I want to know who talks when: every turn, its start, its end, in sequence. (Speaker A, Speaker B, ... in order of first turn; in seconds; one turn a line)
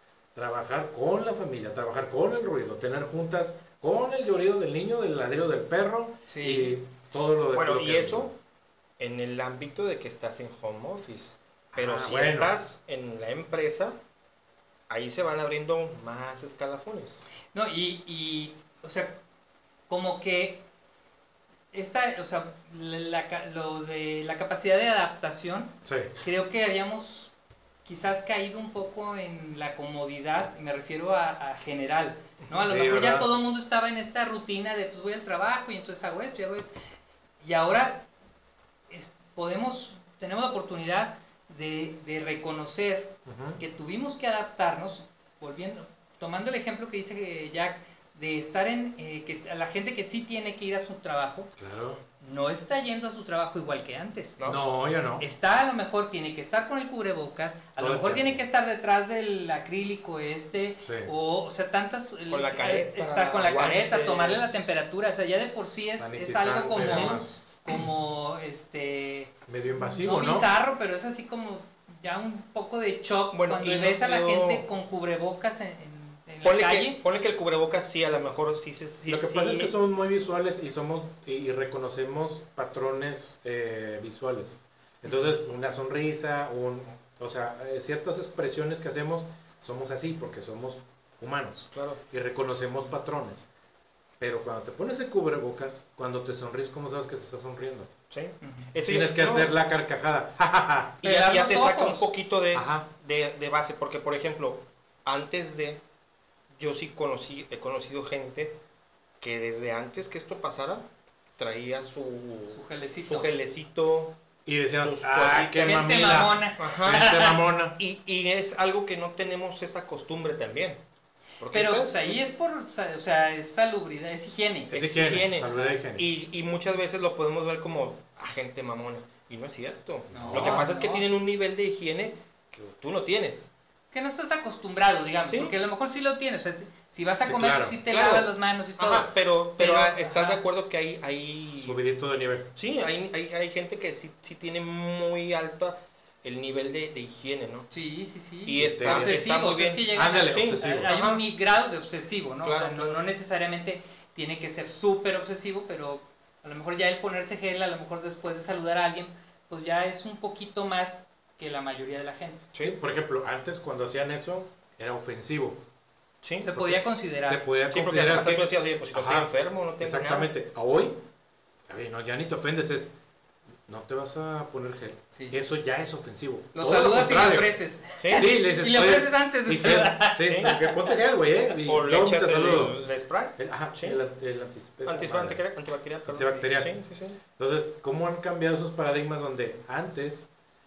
Speaker A: 0.3-8.3
Speaker B: 6.3-6.8
Speaker C: 7.5-8.3
Speaker C: 9.0-14.0
Speaker A: 11.7-12.5
Speaker C: 14.9-17.2
Speaker B: 17.5-19.2
Speaker B: 19.9-20.6
Speaker B: 21.7-27.3
Speaker A: 25.8-26.1
Speaker B: 27.8-36.7
Speaker A: 32.5-33.3
Speaker B: 37.4-38.1
Speaker B: 38.9-51.5
Speaker A: 43.2-43.6
Speaker A: 51.6-52.0
Speaker B: 52.2-54.4
Speaker A: 54.4-55.2
Speaker B: 55.2-69.3
Speaker A: 57.8-58.4
Speaker A: 60.8-61.1
Speaker C: 62.3-64.7
Speaker A: 66.0-67.4
Speaker C: 66.8-67.2
Speaker A: 69.5-70.5
Speaker B: 69.9-77.0
Speaker C: 73.3-74.6
Speaker C: 76.4-79.7
Speaker A: 79.1-93.5
Speaker C: 91.7-92.0
Speaker A: 94.2-97.9
Speaker C: 98.1-99.5
Speaker B: 98.4-98.7
Speaker A: 98.8-101.0
Speaker B: 101.0-102.1
Speaker C: 101.0-105.8
Speaker A: 102.5-102.9
Speaker C: 106.6-108.5
Speaker C: 109.2-110.8
Speaker C: 111.4-114.2
Speaker B: 112.5-113.3
Speaker A: 114.5-117.8
Speaker C: 114.7-115.8
Speaker B: 115.6-117.4
Speaker C: 116.6-120.8
Speaker C: 121.4-122.2
Speaker B: 121.5-124.7
Speaker A: 124.7-126.1
Speaker C: 124.7-133.5
Speaker A: 130.1-130.7
Speaker B: 130.1-131.1
Speaker B: 133.9-140.4
Speaker C: 135.2-135.6
Speaker A: 137.2-137.8
Speaker C: 137.8-141.8
Speaker A: 141.6-142.5
Speaker C: 142.6-147.7
Speaker B: 147.7-162.5
Speaker C: 148.4-151.2
Speaker A: 148.6-149.2
Speaker A: 149.9-150.9
Speaker C: 152.4-153.0
Speaker C: 162.5-162.8
Speaker A: 162.6-165.6
Speaker C: 166.2-166.5
Speaker B: 166.4-167.4
Speaker A: 166.5-171.0
Speaker C: 167.7-170.3
Speaker A: 171.7-172.9
Speaker A: 173.7-177.6
Speaker B: 176.5-180.9
Speaker C: 176.6-177.0
Speaker C: 178.0-178.3
Speaker A: 178.1-182.8
Speaker C: 180.2-180.7
Speaker C: 181.6-184.0
Speaker A: 183.4-185.4
Speaker C: 184.8-187.2
Speaker A: 186.1-186.7
Speaker A: 187.3-190.3